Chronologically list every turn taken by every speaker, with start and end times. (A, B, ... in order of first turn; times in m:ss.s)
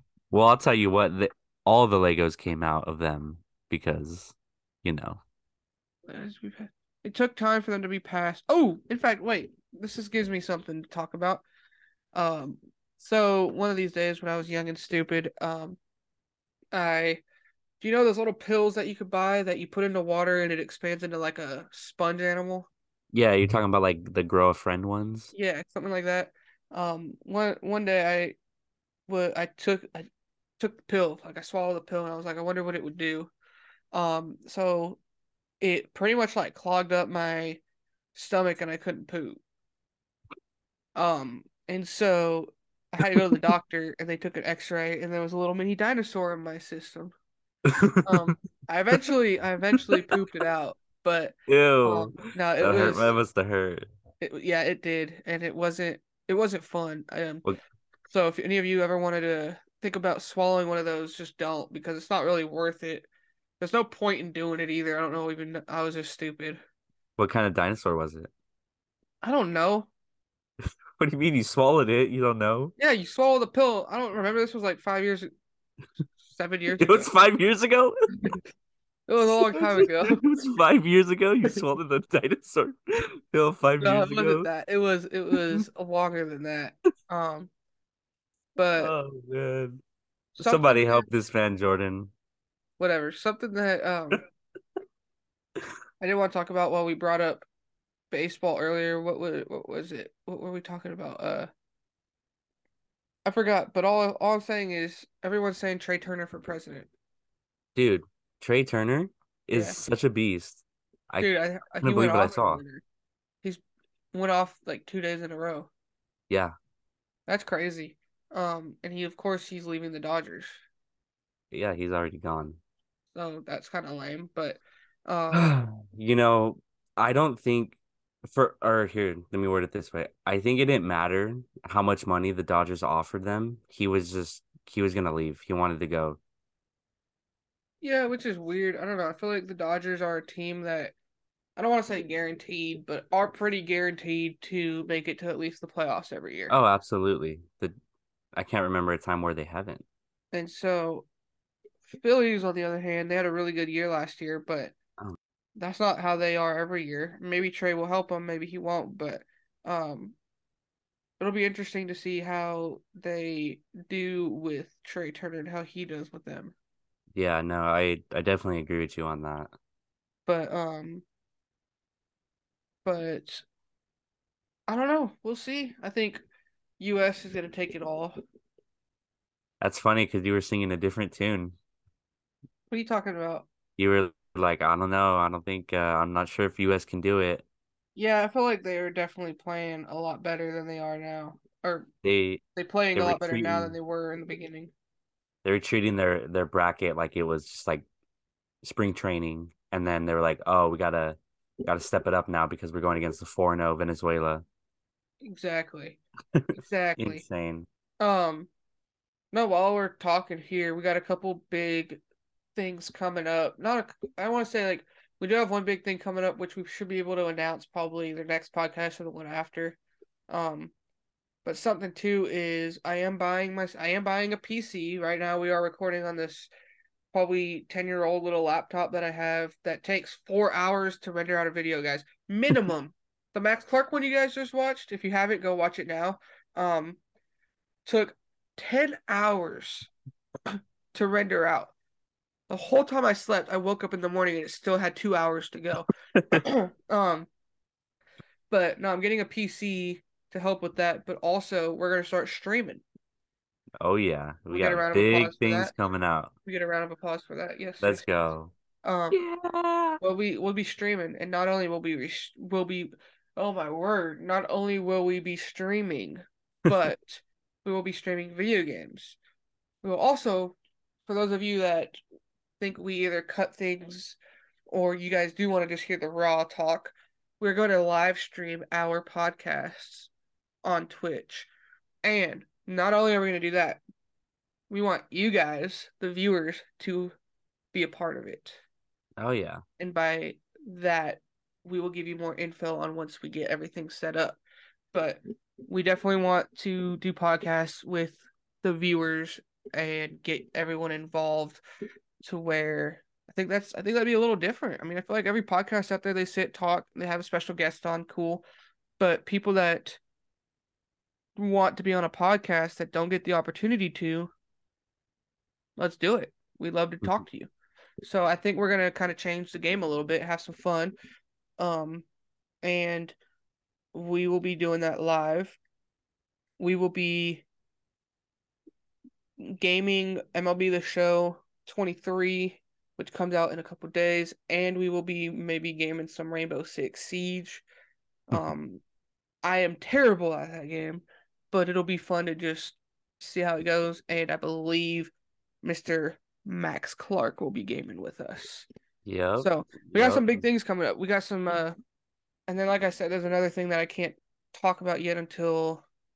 0:00.3-0:05.2 A
0:06.1-0:11.4 B
0:12.1-0:15.8 B
0:16.7-0:17.2 B
0:17.8-0:22.7 B
0:23.1-0:25.3 A
0:25.3-0:28.3 B
0:29.1-0:30.1 B
0:30.6-0:33.3 B
0:33.9-0:35.0 B
0:35.6-0:37.6 B
0:38.1-0:39.4 B
0:41.0-0:47.1 B
0:47.6-0:48.4 A
0:48.0-0:53.1 B
0:49.8-0:50.1 A
0:51.5-0:53.8 A
0:54.2-0:57.4 B
0:58.1-1:03.1 B
1:03.6-1:06.6 B
1:07.2-1:08.3 A
1:09.2-1:09.9 B
1:11.0-1:12.7 A
1:12.8-1:15.3 B
1:16.3-1:17.1 B
1:16.8-1:18.4 A
1:19.1-1:20.2 B
1:19.4-1:24.5 A
1:23.8-1:27.5 B
1:25.3-1:25.6 A
1:28.6-1:28.9 B
1:28.7-1:29.8 A
1:30.4-1:31.0 B
1:30.4-1:32.1 A
1:32.8-1:34.2 B
1:36.0-1:37.4 B
1:38.1-1:41.5 B
1:43.2-1:46.9 B
1:47.7-1:52.6 A
1:49.5-1:49.8 B
1:51.2-1:52.8 B
1:54.1-1:55.7 B
1:57.3-2:00.5 B
2:01.5-2:02.6 A
2:03.1-2:05.5 B
2:05.3-2:16.2 A
2:17.8-2:20.9 B
2:21.6-2:26.5 B
2:26.5-2:27.7 A
2:28.3-2:29.8 A
2:30.3-2:31.0 B
2:32.0-2:34.7 B
2:35.6-2:40.2 B
2:41.2-2:46.5 B
2:47.1-2:49.5 A
2:50.3-2:51.0 B
2:52.8-2:53.4 B
2:54.7-2:56.2 B
2:56.8-2:58.2 B
2:59.6-3:01.5 A
3:02.7-3:03.5 B
3:03.8-3:07.4 A
3:08.0-3:11.9 B
3:12.0-3:12.4 A
3:12.6-3:14.7 B
3:12.9-3:13.7 A
3:15.4-3:17.8 A
3:18.6-3:24.4 A
3:25.2-3:26.0 B
3:26.5-3:27.2 B
3:27.0-3:27.7 A
3:28.0-3:28.5 B
3:29.3-3:32.0 B
3:32.5-3:39.8 B
3:40.3-3:40.7 B
3:41.4-3:46.5 B
3:47.1-3:57.0 B
3:57.8-3:59.9 B
4:00.5-4:01.7 B
4:02.5-4:07.3 B
4:08.5-4:12.8 B
4:13.8-4:16.3 A
4:14.5-4:15.7 B
4:16.4-4:18.0 B
4:17.8-4:18.5 A
4:18.8-4:19.2 B
4:19.1-4:20.0 A
4:20.0-4:29.2 B
4:29.8-4:30.6 B
4:31.1-4:32.0 B
4:32.6-4:34.2 B
4:34.7-4:40.1 B
4:40.6-4:41.5 B
4:42.0-4:43.8 B
4:44.7-4:47.1 B
4:47.7-4:48.6 B
4:49.2-4:49.6 A
4:49.8-4:54.4 B
4:54.9-5:01.6 B
5:02.2-5:08.4 B
5:09.0-5:10.0 B
5:11.4-5:14.3 B
5:15.8-5:17.5 B
5:18.0-5:20.9 B
5:21.6-5:22.0 B
5:22.6-5:23.2 B
5:23.9-5:25.6 B
5:26.6-5:27.4 B
5:29.4-5:37.6 B
5:38.3-5:38.8 B
5:39.4-5:45.1 B
5:45.6-5:48.6 B
5:49.0-5:50.4 A
5:49.4-5:51.8 B
5:52.5-5:55.8 B